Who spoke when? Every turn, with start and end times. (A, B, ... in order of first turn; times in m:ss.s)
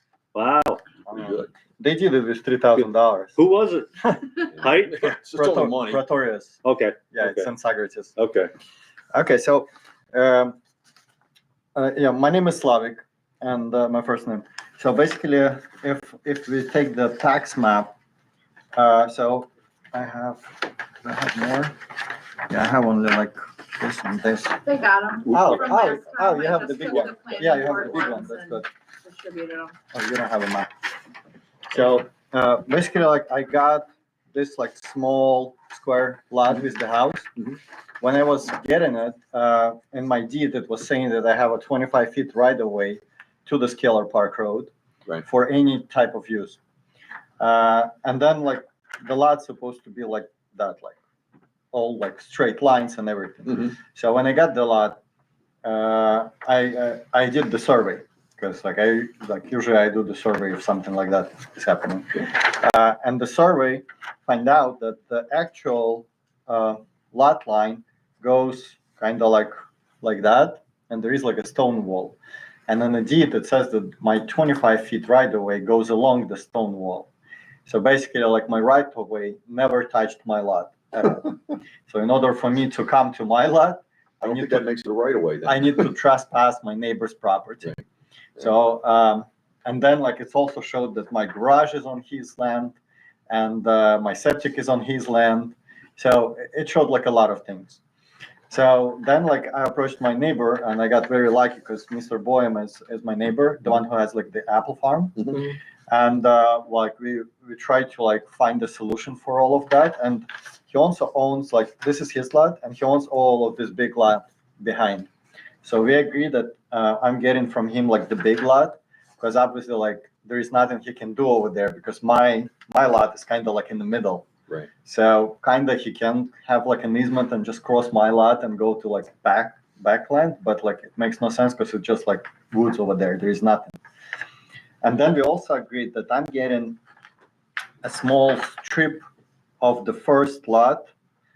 0:00.4-0:00.8 A
0:01.1-0:03.4 B
0:01.1-0:01.5 C
0:02.8-0:05.1 A
0:04.6-0:06.0 C
0:05.4-0:06.6 B
0:06.6-0:07.5 A
0:07.1-0:08.1 B
0:08.2-0:08.5 A
0:09.1-0:10.6 B
0:11.8-0:17.9 B
0:18.8-0:21.8 B
0:22.5-0:24.6 B
0:24.6-0:29.7 D
0:25.3-0:28.6 B
0:25.3-0:25.7 A
0:29.9-0:30.7 B
0:31.7-0:37.3 B
0:38.0-0:44.7 B
0:45.2-0:46.6 B
0:47.4-0:51.0 B
0:51.7-0:55.0 B
0:55.6-1:12.2 B
1:12.7-1:17.1 B
1:17.7-1:24.7 B
1:24.2-1:25.9 C
1:25.4-1:27.8 B
1:28.4-1:32.8 B
1:33.3-1:37.8 B
1:38.5-1:55.1 B
1:55.6-2:04.3 B
2:04.8-2:13.8 B
2:14.8-2:16.8 B
2:17.8-2:19.0 B
2:19.6-2:20.9 B